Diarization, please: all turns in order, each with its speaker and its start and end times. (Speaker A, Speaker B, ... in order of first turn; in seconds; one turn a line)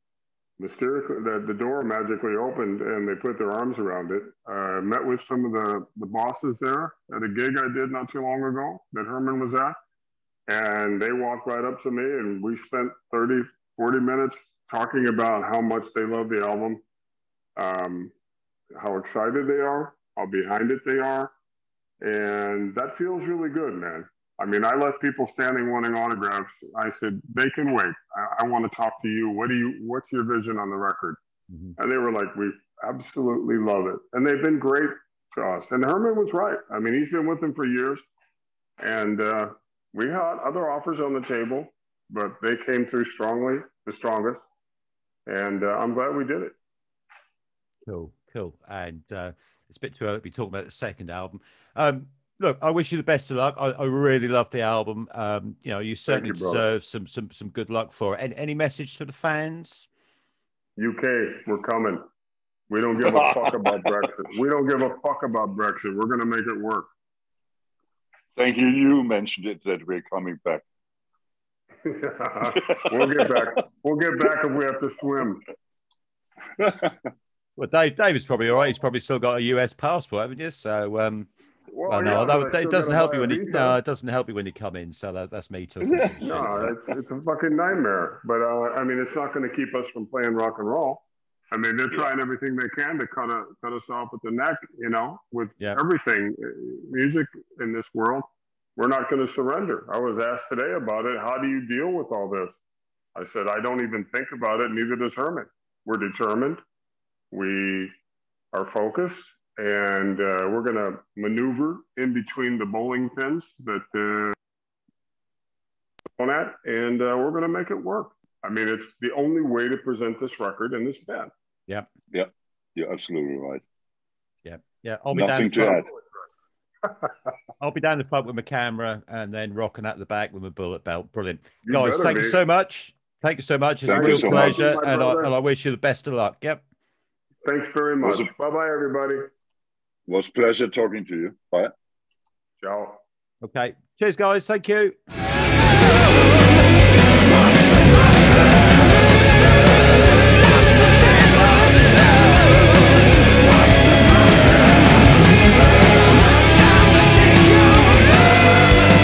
Speaker A: 0.6-9.8
Speaker A: 10.5-16.8
Speaker A: 17.6-18.1
Speaker A: 18.7-21.3
Speaker A: 22.0-31.2
Speaker B: 31.5-31.7
Speaker A: 31.8-38.0
Speaker A: 38.8-44.4
Speaker A: 45.2-46.5
Speaker B: 47.9-59.9
Speaker A: 56.1-56.6
Speaker A: 60.8-62.0
Speaker A: 62.7-66.9
Speaker C: 63.0-64.1
Speaker C: 68.3-70.6
Speaker A: 71.8-75.4
Speaker C: 72.4-73.5
Speaker C: 76.6-77.0
Speaker B: 77.6-81.3
Speaker A: 81.7-83.8
Speaker B: 81.9-86.7
Speaker C: 85.8-86.3
Speaker A: 86.2-102.6
Speaker A: 103.1-106.6
Speaker A: 107.3-107.9
Speaker A: 108.5-114.3
Speaker A: 116.2-121.3
Speaker C: 122.1-123.6
Speaker B: 124.4-125.8
Speaker C: 125.1-125.9
Speaker B: 127.6-136.6
Speaker A: 131.7-132.4
Speaker C: 133.8-134.6
Speaker A: 133.9-135.3
Speaker A: 137.4-139.3
Speaker C: 138.0-138.3
Speaker C: 140.1-141.7
Speaker A: 142.6-143.0
Speaker B: 143.4-144.9
Speaker B: 150.7-152.3
Speaker B: 157.1-158.1